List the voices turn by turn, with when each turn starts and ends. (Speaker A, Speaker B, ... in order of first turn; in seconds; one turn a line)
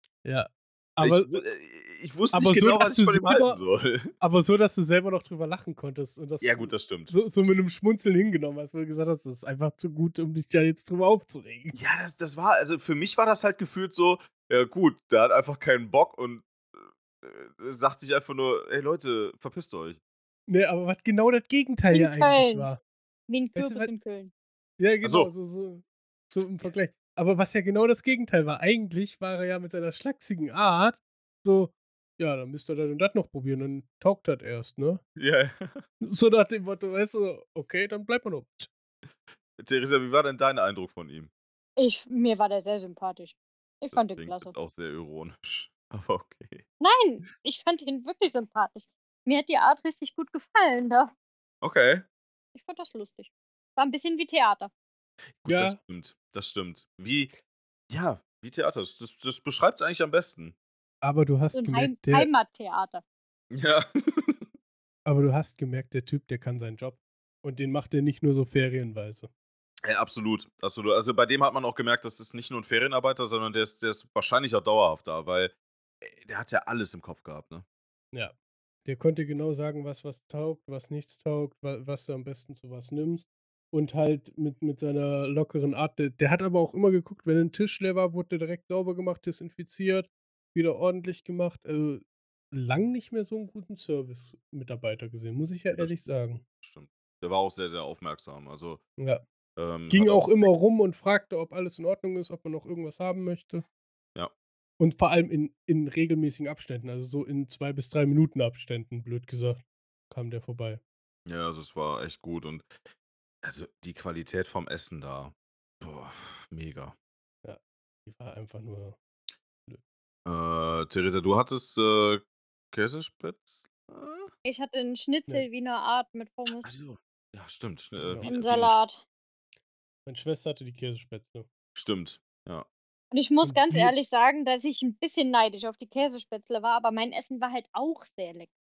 Speaker A: 0.2-1.3
Speaker B: 1.0-4.1
Speaker A: 2.3-3.6
Speaker A: 4.2-11.8
Speaker B: 6.4-7.1
Speaker B: 11.7-20.0
Speaker A: 20.5-22.8
Speaker C: 21.9-22.7
Speaker C: 23.3-24.3
Speaker A: 23.6-23.9
Speaker A: 24.8-35.0
Speaker B: 25.0-25.3
Speaker B: 35.1-35.8
Speaker A: 36.0-38.7
Speaker B: 39.6-41.3
Speaker C: 41.8-44.5
Speaker B: 43.9-46.6
Speaker C: 46.8-51.1
Speaker B: 51.6-52.0
Speaker C: 52.5-54.7
Speaker B: 55.4-57.3
Speaker A: 55.4-55.8
Speaker B: 57.9-60.5
Speaker A: 61.0-62.3
Speaker C: 61.5-63.0
Speaker B: 63.5-64.5
Speaker A: 65.0-69.3
Speaker B: 69.8-77.6
Speaker A: 78.8-96.4
Speaker B: 96.6-98.8
Speaker B: 99.6-100.3
Speaker A: 99.9-103.6
Speaker A: 104.8-110.8
Speaker B: 111.3-112.8
Speaker B: 113.4-116.9
Speaker A: 117.4-119.0
Speaker B: 120.2-124.3
Speaker C: 124.4-126.7
Speaker B: 126.6-128.7
Speaker A: 128.0-128.3
Speaker C: 128.2-129.0
Speaker A: 130.1-131.5
Speaker B: 131.7-132.7
Speaker C: 133.1-138.5
Speaker A: 133.4-133.9